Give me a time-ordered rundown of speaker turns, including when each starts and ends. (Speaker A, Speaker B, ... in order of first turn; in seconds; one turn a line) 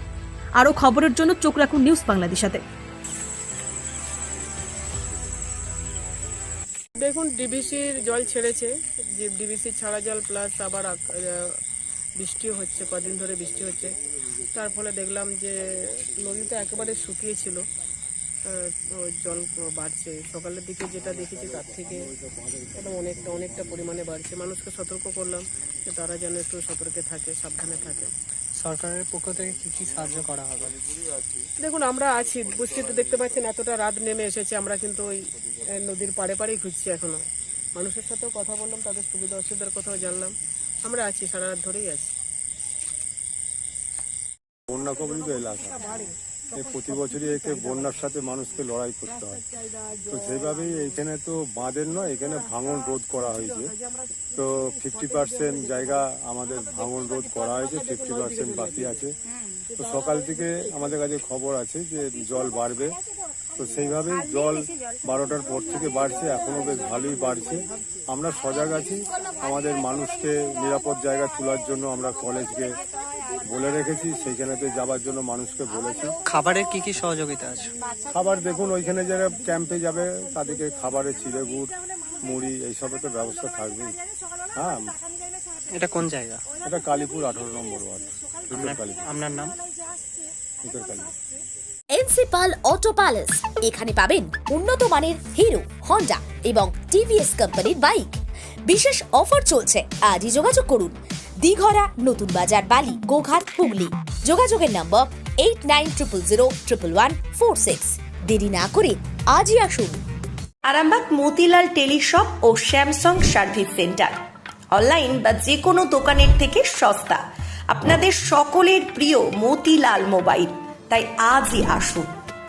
Speaker A: 0.6-2.6
Speaker B: 7.0-11.6
Speaker B: 12.2-14.0
Speaker B: 14.5-17.6
Speaker B: 18.5-22.1
Speaker B: 22.7-28.1
Speaker C: 28.6-30.8
Speaker B: 31.6-35.2
Speaker B: 35.7-37.2
Speaker B: 37.8-42.1
Speaker D: 44.7-45.9
Speaker D: 46.5-49.5
Speaker D: 50.1-53.7
Speaker D: 54.4-59.1
Speaker D: 59.8-63.0
Speaker D: 63.6-72.8
Speaker D: 73.4-76.1
Speaker C: 76.1-77.7
Speaker D: 78.1-84.0
Speaker D: 84.5-84.9
Speaker C: 85.7-86.4
Speaker D: 86.6-89.1
Speaker C: 88.5-89.6
Speaker D: 90.6-91.1
Speaker E: 91.9-110.0
Speaker F: 110.7-114.1
Speaker F: 114.7-122.2